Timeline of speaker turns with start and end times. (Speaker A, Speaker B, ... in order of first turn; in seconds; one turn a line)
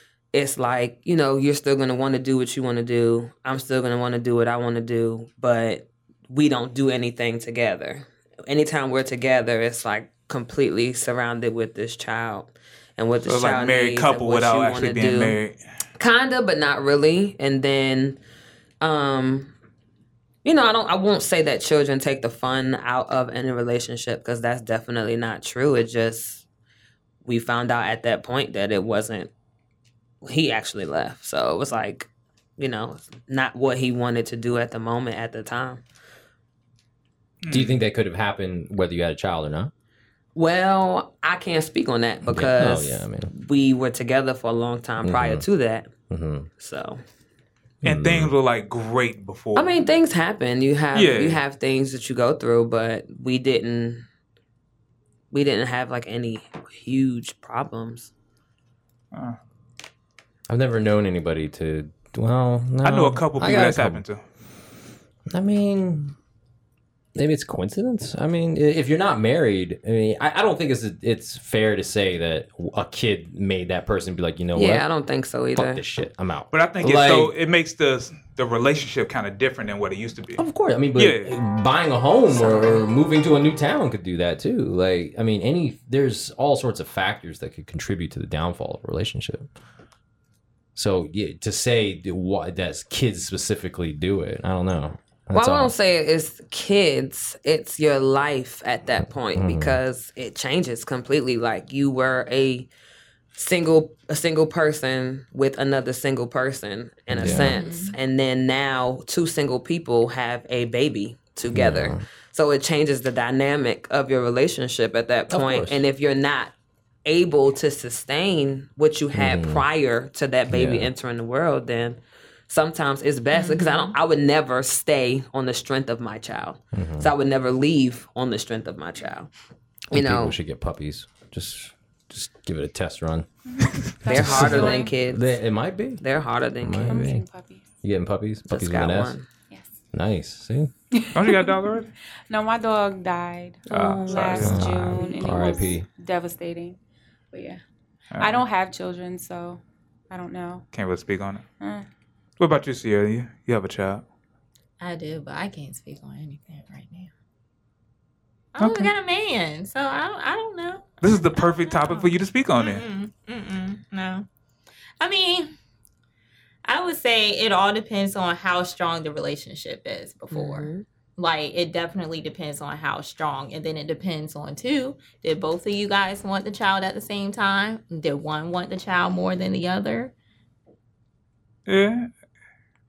Speaker A: 0.3-15.4
Speaker B: 13.3-15.6
Speaker A: 16.0-18.2
Speaker A: 18.8-19.5
Speaker A: 20.4-26.4
Speaker A: 27.2-29.3
Speaker A: 30.2-35.8
Speaker B: 37.4-37.8
Speaker C: 37.5-39.7
Speaker A: 40.4-45.9
Speaker C: 42.2-43.3
Speaker C: 45.0-45.5
Speaker C: 46.1-46.5
Speaker A: 46.6-47.0
Speaker C: 47.8-48.3
Speaker B: 47.8-49.8
Speaker A: 49.6-54.1
Speaker B: 50.9-51.4
Speaker A: 55.3-58.1
Speaker C: 60.5-64.0
Speaker B: 62.8-64.2
Speaker C: 65.3-66.2
Speaker C: 67.2-74.9
Speaker A: 74.5-75.8
Speaker C: 75.5-77.3
Speaker B: 76.5-80.4
Speaker C: 80.4-89.5
Speaker B: 81.0-81.3
Speaker C: 90.8-95.7
Speaker A: 95.3-102.7
Speaker C: 99.3-99.8
Speaker A: 103.3-116.5
Speaker C: 107.1-107.6
Speaker D: 107.2-108.0
Speaker C: 111.5-112.0
Speaker C: 115.3-115.8
Speaker A: 117.0-129.3
Speaker C: 119.1-119.7
Speaker C: 120.5-120.9
Speaker D: 123.3-124.0
Speaker C: 126.7-127.1
Speaker C: 129.9-133.3
Speaker A: 129.9-130.4
Speaker E: 133.5-134.9
Speaker A: 134.0-135.4
Speaker C: 134.1-136.0
Speaker B: 134.2-134.4
Speaker A: 136.0-137.1
Speaker C: 136.6-137.2
Speaker E: 136.9-137.7
Speaker C: 137.8-139.2
Speaker A: 138.5-139.3
Speaker C: 139.9-140.7
Speaker E: 140.9-141.6
Speaker B: 141.1-141.9
Speaker E: 142.3-146.8
Speaker A: 143.7-144.5
Speaker B: 143.7-145.0
Speaker C: 144.3-145.9
Speaker E: 147.3-147.6
Speaker B: 148.1-148.4
Speaker E: 148.2-150.7
Speaker B: 150.7-151.4
Speaker E: 151.6-151.9
Speaker B: 152.4-154.0
Speaker D: 154.8-157.1
Speaker D: 158.6-164.3
Speaker B: 158.6-158.9
Speaker B: 161.0-162.8
Speaker D: 165.0-165.5
Speaker D: 166.7-180.1
Speaker A: 170.3-170.8
Speaker B: 181.7-182.1